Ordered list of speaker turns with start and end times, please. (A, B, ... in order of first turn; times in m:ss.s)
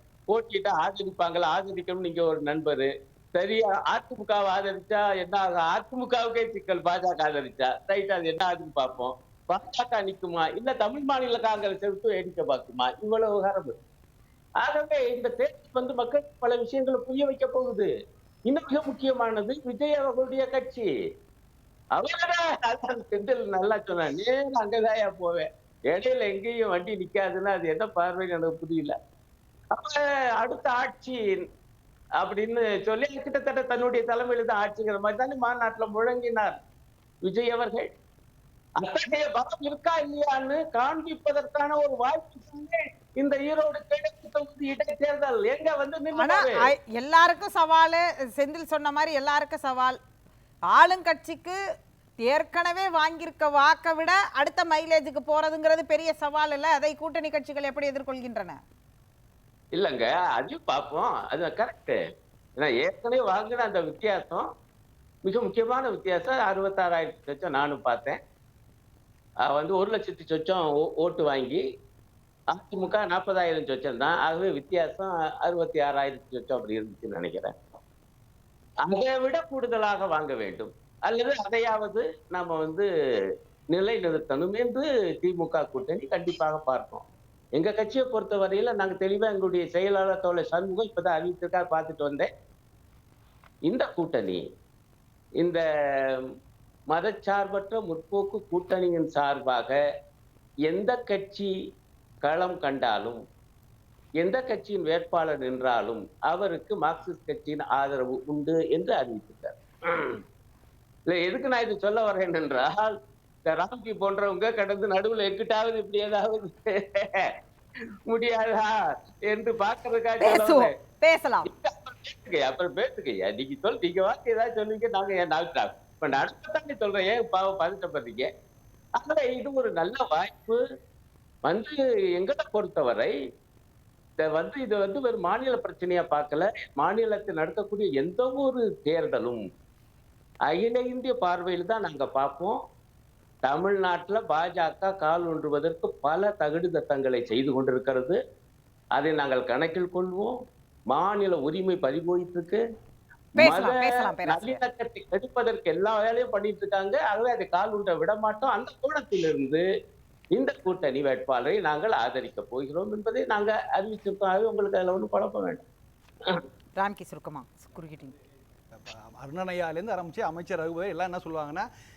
0:00.3-0:13.7 A
0:14.6-0:17.9 A
0:18.5-0:20.9 A
0:22.0-0:28.9 A
0:29.8-0:31.2 A
0:32.2-0:36.5 A
0:37.2-0:37.9 A
0:38.8-0:46.6 A
0:46.2-0:50.0 B
0:50.7-0:51.6 B
0:52.2-0:58.6 B
0:59.7-1:02.0 A
1:02.6-1:04.4 A
1:05.2-1:08.2 A
1:09.5-1:11.6 A
1:12.5-1:17.5 A
1:18.9-1:22.9 A
1:23.7-1:27.0 A
1:27.6-1:32.3 A
1:33.7-1:34.4 A
1:36.9-1:39.8 A
1:40.7-1:41.5 A
1:42.2-1:43.2 A
1:44.2-1:50.2 A
1:51.1-1:52.9 A
1:53.5-1:57.2 A
1:58.1-1:58.7 A
1:59.3-2:00.7 A
2:00.2-2:01.5 B
2:01.5-2:08.3 A
2:09.0-2:10.6 A
2:11.5-2:13.1 A
2:14.2-2:19.4 A
2:20.5-2:22.6 A
2:23.5-2:28.2 A
2:29.0-2:30.3 A
2:30.9-2:32.6 A
2:33.4-2:34.6 B
2:33.4-2:39.6 A
2:40.3-2:45.6 A
2:46.8-2:48.1 B
2:48.7-2:51.6 C